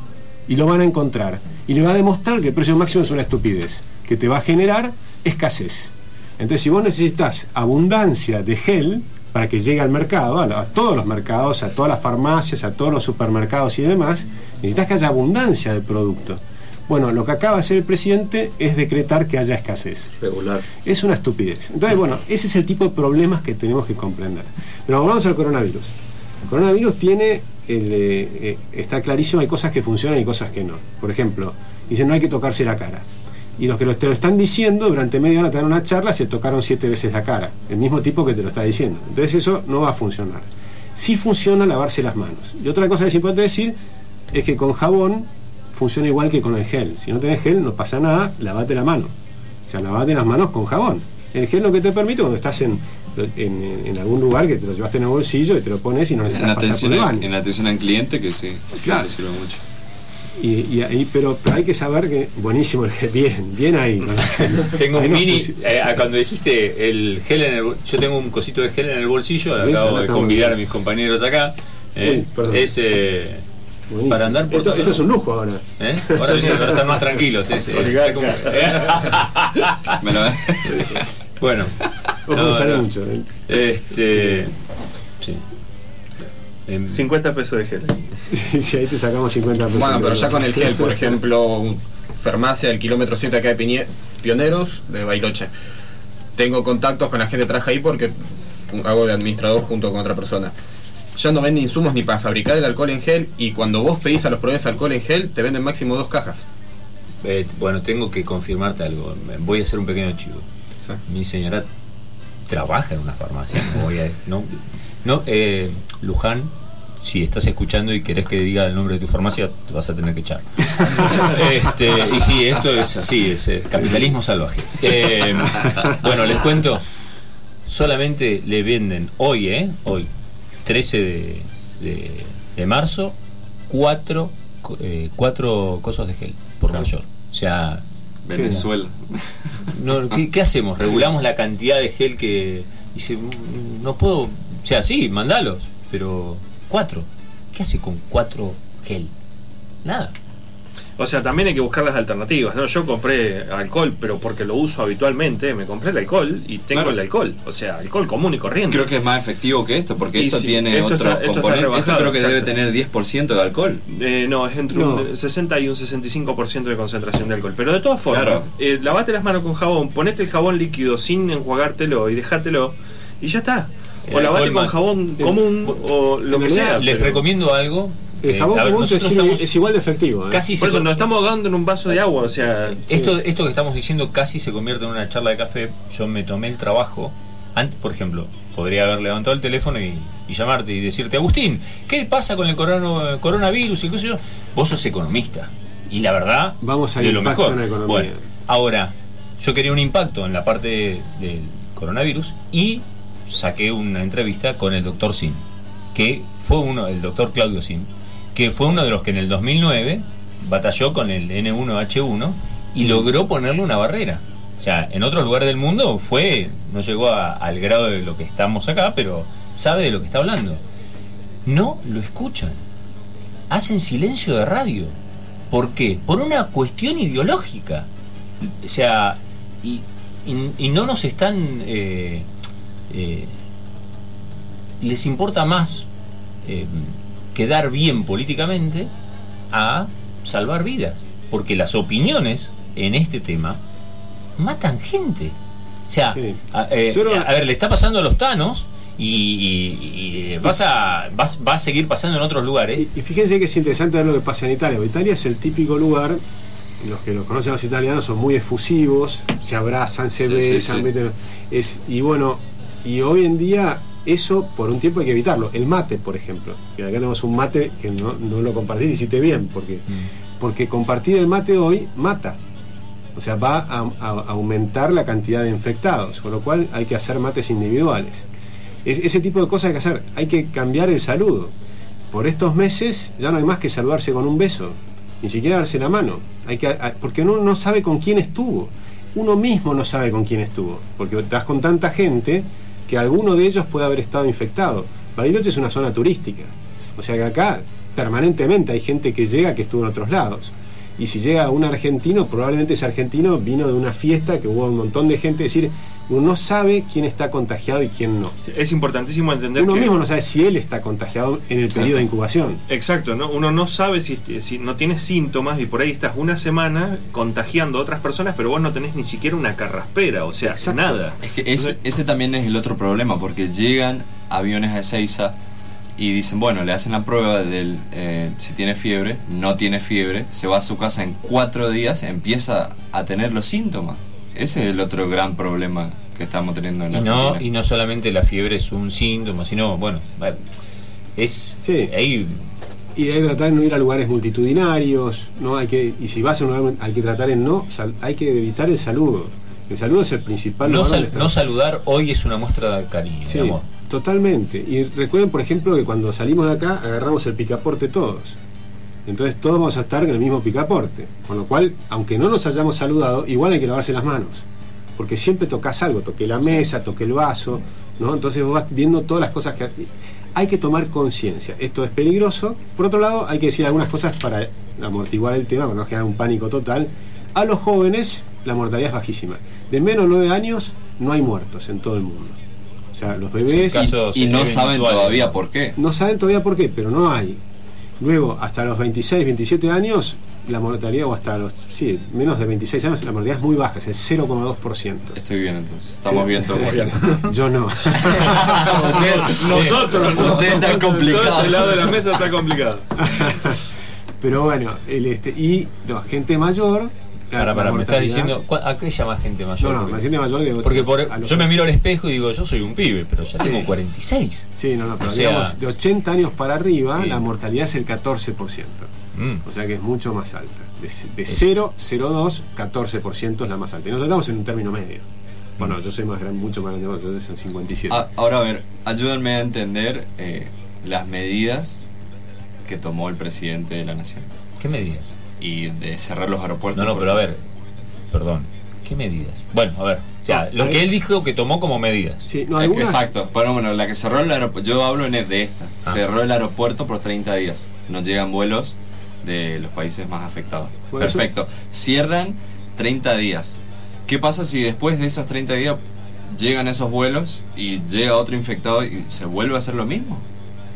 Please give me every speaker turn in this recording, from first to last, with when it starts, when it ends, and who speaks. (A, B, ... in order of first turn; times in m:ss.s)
0:00.5-0:20.2 A
0:20.2-0:20.6 B
0:20.8-0:25.9 A
0:26.4-0:43.7 A
0:44.3-0:49.1 A
0:49.7-0:57.3 A
0:56.3-0:59.6 B
0:58.8-0:59.1 A
1:00.4-1:05.6 A
1:04.4-1:13.4 C
1:09.6-1:10.6 A
1:12.0-1:12.7 A
1:13.9-1:16.8 A
1:14.1-1:15.0 C
1:15.8-1:20.0 C
1:16.2-1:16.8 D
1:17.6-1:19.0 D
1:20.0-1:21.0 B
1:20.7-1:21.0 A
1:21.4-1:22.9 C
1:22.3-1:23.3 A
1:23.5-1:24.6 C
1:26.7-1:27.0 C
1:26.9-1:28.0 D
1:28.3-1:31.0 A
1:29.7-1:35.5 E
1:36.3-1:38.1 E
1:38.7-1:40.5 E
1:41.2-1:46.4 E
1:47.2-1:50.4 C
1:51.0-1:51.7 C
1:52.5-2:06.8 C
2:07.7-2:10.1 C
2:10.6-2:13.2 C
2:13.7-2:17.8 C
2:18.2-2:19.7 B
2:18.3-2:18.6 A
2:19.7-2:29.1 C
2:29.8-2:30.1 C
2:31.0-2:38.9 D
2:38.7-2:43.8 B
2:40.2-2:42.5 D
2:43.9-2:57.2 D
2:44.7-2:45.1 A
2:48.1-2:48.5 B
2:54.1-2:54.8 C
2:55.2-2:55.4 A
2:56.3-2:57.0 A
2:56.4-2:59.5 C
2:58.2-3:00.4 A
3:00.3-3:00.9 C
3:00.6-3:02.9 D
3:02.9-3:03.1 A
3:02.9-3:25.4 C
3:16.6-3:18.2 A
3:25.9-3:40.6 C
3:41.4-3:42.6 C
3:43.5-3:45.0 C
3:45.5-3:47.9 C
3:48.4-3:52.3 C
3:52.9-3:53.3 C
3:54.8-3:55.9 C
3:56.4-3:58.9 C
3:59.5-4:03.6 C
4:04.4-4:05.3 C
4:05.9-4:12.9 C
4:06.9-4:07.3 A
4:12.8-4:16.2 A
4:16.8-4:32.4 A
4:20.3-4:20.9 B
4:33.1-4:38.3 A
4:38.8-4:41.5 A
4:42.1-5:08.4 A
5:08.4-5:09.9 D
5:09.6-5:12.6 A
5:12.7-5:21.2 D
5:20.6-5:21.0 A
5:21.2-5:25.3 B
5:26.0-5:37.4 B
5:36.9-5:40.4 C
5:41.2-5:42.4 C
5:41.6-5:41.9 A
5:43.0-5:51.4 A
5:50.6-5:53.6 C
5:53.3-5:58.4 A
5:59.0-6:04.4 A
6:05.0-6:22.4 A
6:22.9-6:23.8 A
6:23.5-6:25.3 C
6:23.7-6:25.8 B
6:25.8-6:27.4 A
6:28.0-6:35.2 A
6:35.2-6:37.2 B
6:36.1-6:39.3 A
6:38.0-6:42.0 B
6:38.4-6:43.2 D
6:40.7-6:41.0 A
6:43.0-6:48.4 A
6:47.4-6:50.1 C
6:49.6-6:51.5 A
6:50.6-6:54.5 C
6:54.6-6:58.9 A
6:55.0-6:55.6 C
6:59.1-6:59.4 C
6:59.4-7:05.0 A
7:05.6-7:08.0 A
7:07.9-7:11.9 B
7:12.6-7:14.3 B
7:14.6-7:15.1 C
7:15.4-7:17.2 B
7:16.7-7:17.4 C
7:18.1-7:22.2 C
7:20.4-7:20.8 A
7:22.2-7:23.1 A
7:22.6-7:35.8 B
7:30.9-7:31.2 A
7:36.3-7:40.2 B